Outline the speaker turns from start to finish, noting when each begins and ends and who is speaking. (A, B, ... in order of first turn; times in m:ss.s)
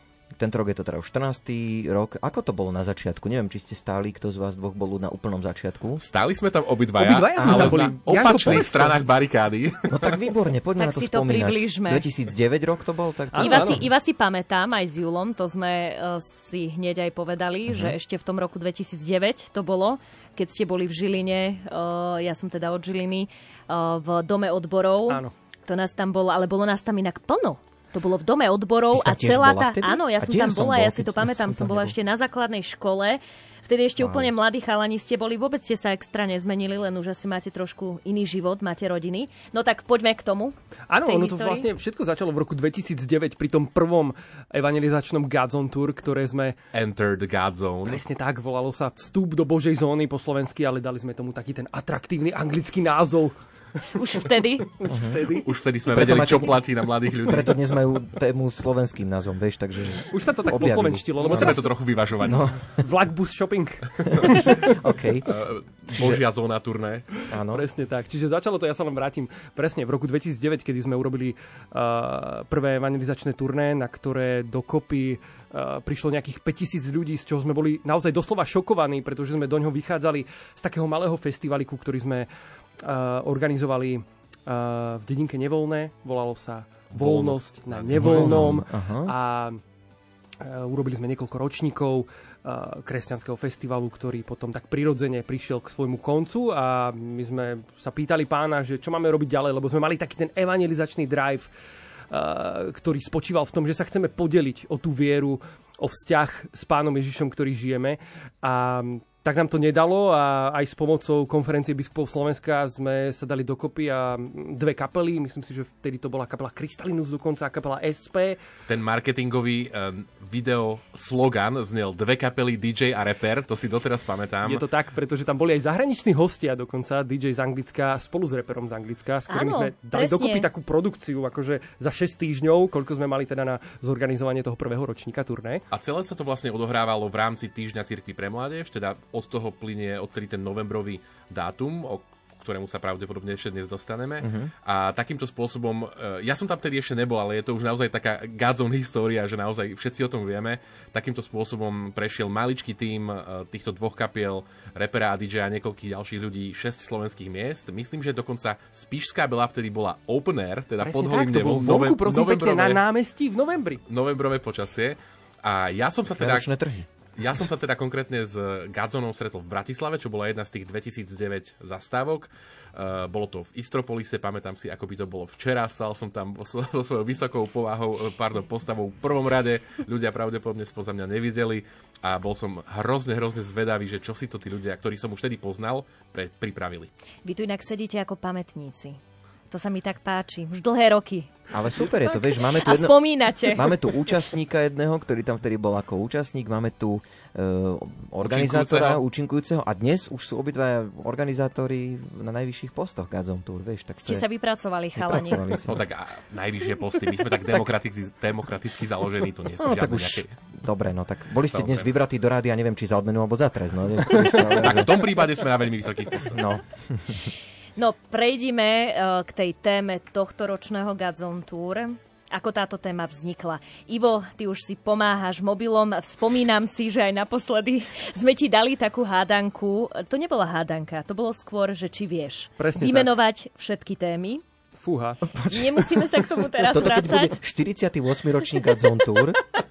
0:00.4-0:06.0 A
0:06.0-0:10.2 B
0:07.0-0:09.1 C
0:07.4-0:07.8 A
0:09.9-0:13.8 A
0:10.8-0:12.1 D
0:13.3-0:13.8 C
0:13.4-0:41.6 D
0:17.7-0:18.0 A
0:25.1-0:25.3 C
0:28.9-0:32.0 A
0:34.0-0:34.3 A
0:40.9-0:46.6 C
0:46.7-0:48.0 B
0:47.8-0:53.4 C
0:54.0-0:54.7 D
0:54.8-0:55.4 C
0:54.9-0:55.2 A
0:55.4-0:57.7 B
0:55.9-0:56.6 A
0:57.2-1:01.6 A
1:00.1-1:01.7 C
1:01.2-1:02.5 B
1:02.2-1:02.7 A
1:02.8-1:04.4 C
1:04.2-1:05.3 A
1:05.2-1:07.1 B
1:06.0-1:06.2 A
1:07.3-1:07.6 A
1:07.5-1:29.6 C
1:26.9-1:28.5 B
1:27.9-1:29.1 A
1:30.4-1:41.5 C
1:42.1-1:58.4 C
1:58.7-2:04.6 B
2:04.4-2:15.6 C
2:09.3-2:10.5 D
2:15.7-2:42.8 B
2:24.2-2:24.5 A
2:40.8-2:43.8 C
2:43.9-2:46.5 B
2:46.1-2:46.8 A
2:47.2-3:06.9 B
3:07.2-3:11.3 D
3:11.5-3:24.2 A
3:12.0-3:13.7 D
3:18.2-3:19.0 B
3:24.0-3:25.5 D
3:25.0-3:25.8 A
3:25.7-3:30.3 B
3:29.6-3:35.2 A
3:31.5-3:31.9 B
3:34.3-3:36.4 B
3:36.3-3:37.3 A
3:37.8-3:54.4 D
3:52.6-3:53.1 C
3:54.8-3:55.2 C
3:55.4-3:56.0 A
3:55.5-3:57.4 D
3:56.6-3:59.4 A